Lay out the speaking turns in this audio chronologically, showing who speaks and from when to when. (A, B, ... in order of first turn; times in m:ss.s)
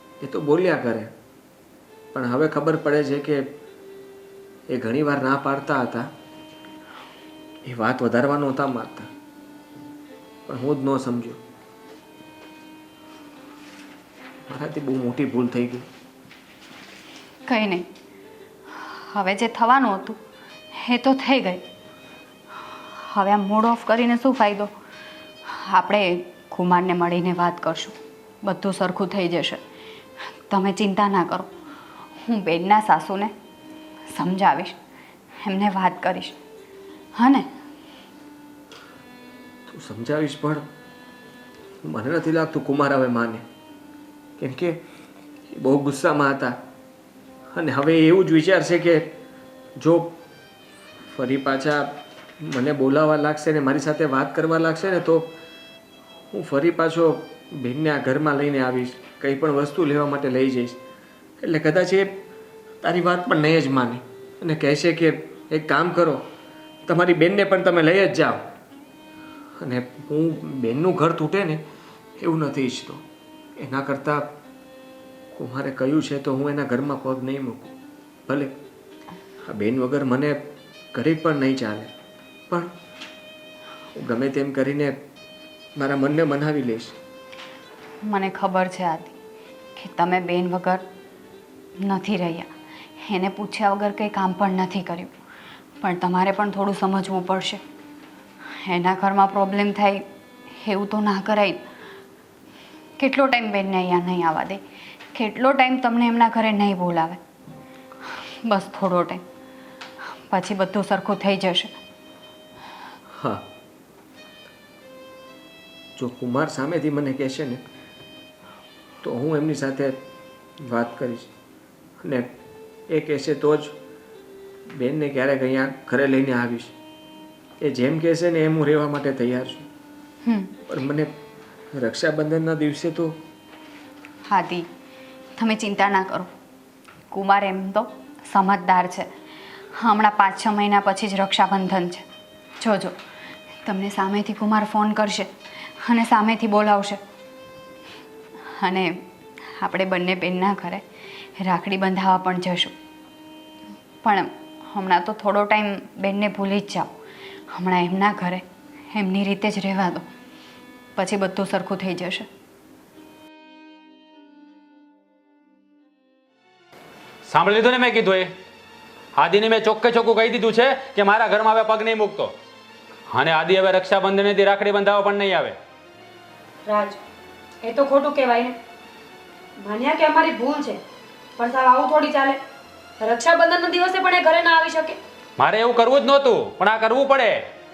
0:00.2-0:01.1 A
0:02.1-0:03.4 A
0:04.7-0:06.1 A
0:07.6-0:09.1 A
0:10.5-0:11.4 A
0:14.5-0:15.8 A
0:17.5-0:17.8 B
0:18.7-0:20.2 B
0:20.7-0:21.6 B
0:22.8-0:24.7 B
0:25.5-0:29.6 B
0:30.5-0:31.5 B
0:32.2-0:33.3 B
0:34.1-0:34.8 B
0:35.4-0:36.4 B
0:37.1-0:37.5 B
0:39.7-0:40.6 A
0:41.8-0:43.4 A
0:44.4-0:44.8 A
0:45.5-0:46.6 A
0:47.5-0:49.1 A
0:49.8-0:50.2 A
0:51.1-0:55.3 A
0:56.3-1:00.8 A
1:01.4-1:02.1 A
1:02.8-1:06.2 A
1:06.8-1:08.4 A
1:09.6-1:11.6 A
1:12.2-1:13.0 A
1:13.6-1:14.3 A
1:15.3-1:17.7 A
1:18.3-1:18.5 A
1:19.5-1:20.4 A
1:20.9-1:21.9 A
1:24.0-1:25.0 A
1:25.8-1:26.9 A
1:28.0-1:29.1 B
1:29.8-1:30.8 B
1:31.8-1:32.5 B
1:33.0-1:35.1 B
1:35.8-1:37.6 B
1:38.6-1:40.0 B
1:40.6-1:41.6 B
1:43.0-1:44.6 B
1:45.1-1:47.2 B
1:48.4-1:49.2 B
1:50.3-1:51.7 B
1:53.1-1:53.4 A
1:56.0-1:57.6 A
1:59.0-2:00.0 A
2:00.6-2:01.3 A
2:02.0-2:02.3 A
2:02.9-2:03.7 A
2:04.7-2:06.7 A
2:07.6-2:09.7 A
2:10.2-2:10.5 B
2:10.7-2:11.1 A
2:11.7-2:13.2 A
2:14.3-2:14.7 B
2:15.4-2:16.3 B
2:17.1-2:19.1 B
2:19.7-2:22.0 B
2:22.6-2:23.0 B
2:23.6-2:27.0 B
2:28.6-2:29.0 B
2:29.6-2:30.8 B
2:31.4-2:32.7 B
2:34.0-2:36.9 B
2:37.5-2:40.1 B
2:41.0-2:42.3 B
2:47.2-2:48.3 C
2:49.1-2:52.3 C
2:53.1-2:55.6 C
2:56.6-2:57.0 D
2:57.6-2:58.6 D
2:59.6-3:00.8 D
3:01.4-3:02.4 D
3:03.0-3:05.0 D
3:05.4-3:07.5 C